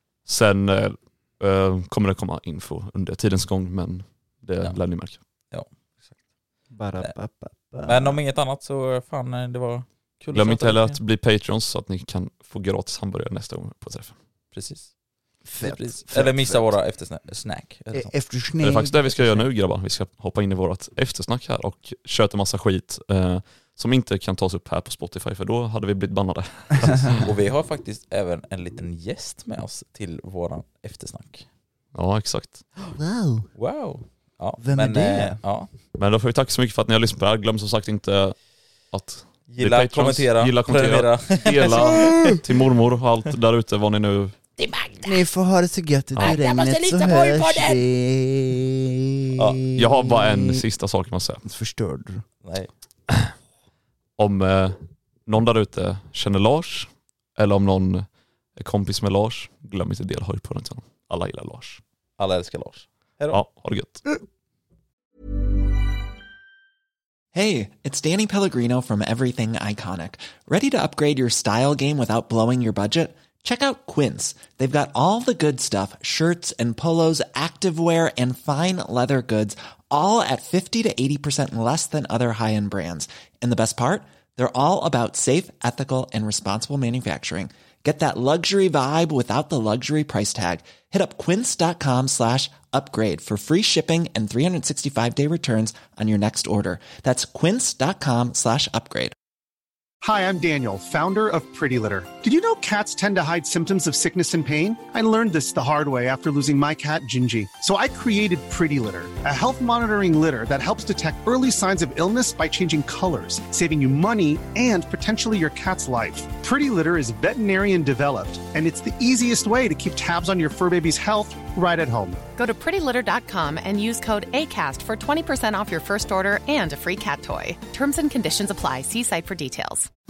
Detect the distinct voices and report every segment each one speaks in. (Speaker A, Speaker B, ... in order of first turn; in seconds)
Speaker A: 0.2-5.2, 10.3-14.1, 18.6-27.3, 31.9-32.6, 35.9-38.3, 38.9-44.3, 49.8-51.4, 54.2-61.8, 63.3-64.0
Speaker B: 6.7-8.2, 15.4-16.8, 17.9-19.4, 33.0-33.5, 34.6-35.4, 45.0-50.6, 51.4-52.2
Speaker C: 7.9-11.0, 14.5-14.9, 15.6-18.1, 27.2-31.4, 33.5-35.7, 39.5-42.4, 44.6-45.1, 46.2-47.8, 52.4-52.7, 62.2-63.4
Speaker D: 67.3-99.1
Speaker E: 100.0-122.2
Speaker F: 122.3-129.9